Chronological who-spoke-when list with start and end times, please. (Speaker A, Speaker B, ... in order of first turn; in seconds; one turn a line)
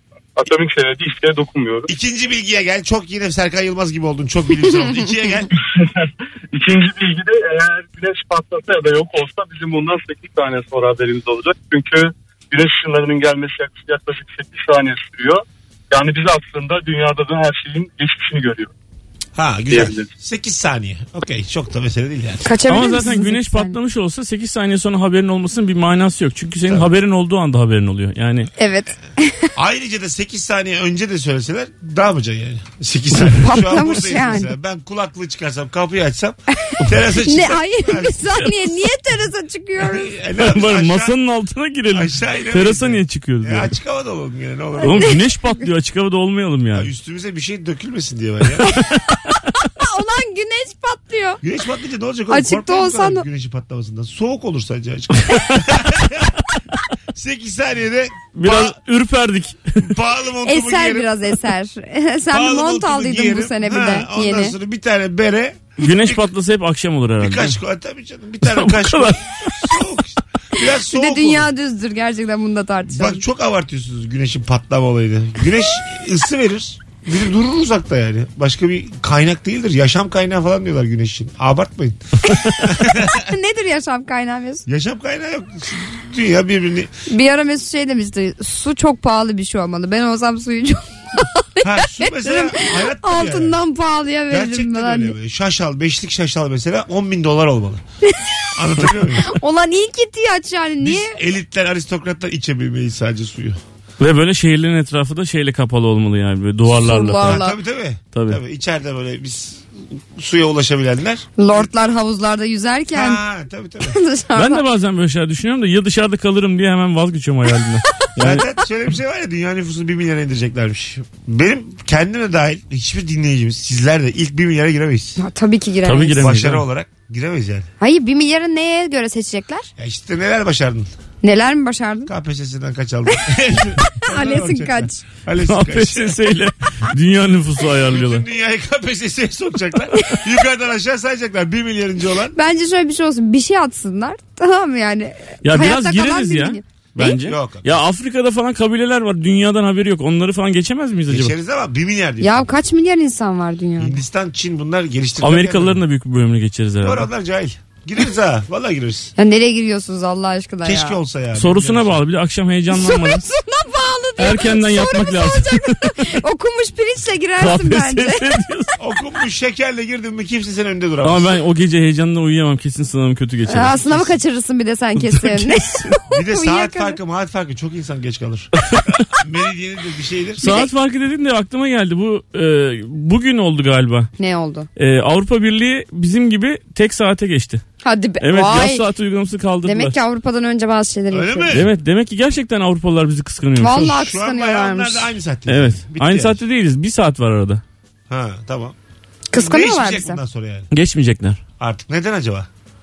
Speaker A: 0.3-1.9
Speaker B: 1.9-5.5
Speaker A: 5.5-18.7
Speaker B: 19.3-22.5
Speaker A: 19.7-20.1
Speaker C: 22.4-23.8
Speaker D: 22.7-28.5
Speaker C: 28.6-29.5
Speaker B: 29.6-38.5
Speaker C: 33.3-34.5
Speaker C: 36.7-40.1
Speaker B: 39.8-41.1
Speaker D: 40.4-43.7
Speaker B: 41.9-45.1
Speaker C: 44.8-45.2
Speaker D: 44.8-46.9
Speaker B: 46.7-48.7
Speaker C: 48.6-51.4
Speaker D: 48.8-49.0
Speaker B: 51.4-56.4
Speaker C: 52.3-53.2
Speaker B: 57.1-58.8
Speaker D: 58.3-59.9
Speaker B: 59.8-61.1
Speaker C: 60.4-64.5
Speaker B: 62.3-66.3
Speaker D: 65.8-67.6
Speaker B: 67.2-71.5
Speaker D: 68.4-69.5
Speaker C: 70.6-73.2
Speaker B: 72.9-82.0
Speaker C: 82.2-84.6
Speaker B: 82.6-83.3
Speaker B: 84.7-86.9
Speaker C: 87.1-95.1
Speaker B: 91.6-93.6
Speaker B: 94.3-97.8
Speaker C: 98.1-98.5
Speaker B: 98.5-99.3
Speaker C: 99.1-101.2
Speaker B: 100.8-103.6
Speaker D: 104.0-107.4
Speaker C: 106.7-107.6
Speaker B: 107.2-111.7
Speaker D: 108.1-108.4
Speaker C: 111.4-113.2
Speaker B: 112.9-114.0
Speaker C: 113.8-114.6
Speaker D: 114.3-118.4
Speaker B: 118.2-125.2
Speaker C: 125.2-126.3
Speaker D: 125.8-126.6
Speaker B: 126.2-127.7
Speaker C: 127.8-129.7
Speaker B: 129.8-130.9
Speaker C: 131.2-132.1
Speaker B: 132.1-136.2
Speaker C: 133.9-135.0
Speaker D: 135.4-138.2
Speaker B: 137.9-142.3
Speaker C: 142.3-147.2
Speaker D: 145.4-151.3
Speaker B: 147.0-147.8
Speaker B: 151.1-152.5
Speaker C: 152.2-153.9
Speaker B: 153.8-155.8
Speaker D: 155.2-157.1
Speaker B: 156.8-159.1
Speaker C: 159.2-161.0
Speaker B: 160.6-162.0
Speaker D: 161.3-163.2
Speaker C: 162.7-168.3
Speaker D: 164.2-166.2
Speaker D: 167.4-168.7
Speaker B: 168.8-171.3
Speaker D: 171.0-174.1
Speaker C: 173.5-177.0
Speaker D: 174.9-175.6
Speaker B: 176.1-178.5
Speaker B: 179.1-180.4
Speaker C: 180.4-180.7
Speaker D: 180.4-184.1
Speaker C: 184.2-184.7
Speaker D: 184.8-187.6
Speaker C: 187.8-188.8
Speaker D: 188.2-190.0
Speaker C: 189.6-191.6
Speaker B: 191.1-191.7
Speaker D: 191.5-193.9
Speaker C: 193.6-195.1
Speaker B: 193.6-196.4
Speaker D: 195.5-197.6
Speaker B: 198.1-198.7
Speaker C: 199.3-200.2
Speaker B: 199.3-200.7
Speaker D: 200.7-201.4
Speaker B: 201.6-202.5